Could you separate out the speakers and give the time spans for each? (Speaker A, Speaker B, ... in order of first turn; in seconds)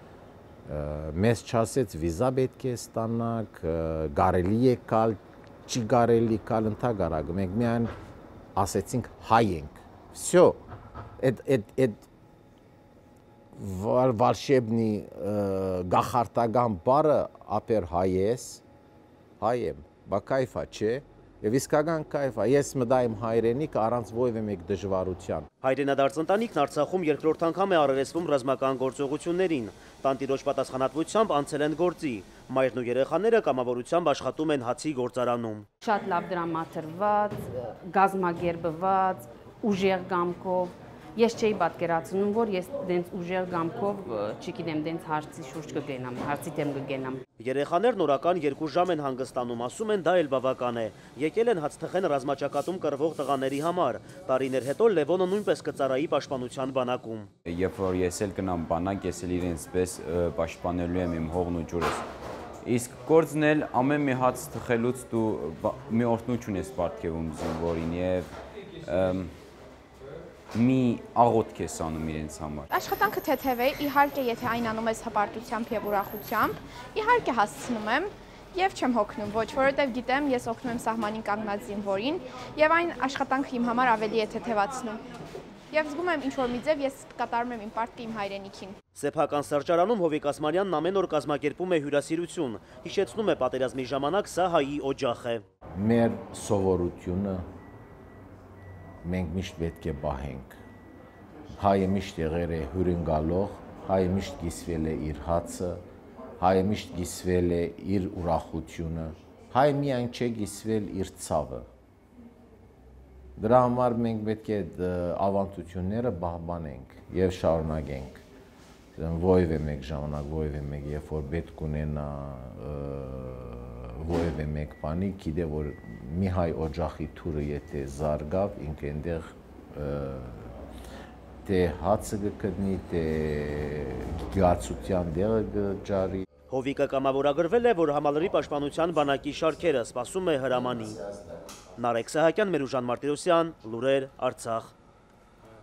Speaker A: 0.7-7.9, 8.6-10.6, 11.2-12.1, 13.6-18.6, 19.4-25.5, 95.8-97.4, 99.0-100.5, 101.5-105.8, 106.4-111.7, 113.4-118.2, 119.0-130.6, 131.4-136.3, 141.0-141.5
Speaker B: 25.6-35.6, 47.4-57.3, 89.0-95.4, 136.5-141.0, 141.8-144.7
Speaker C: 35.8-47.2
Speaker D: 57.5-62.0, 62.6-68.3, 68.8-69.3, 70.5-72.7
Speaker E: 72.7-85.0, 85.7-88.8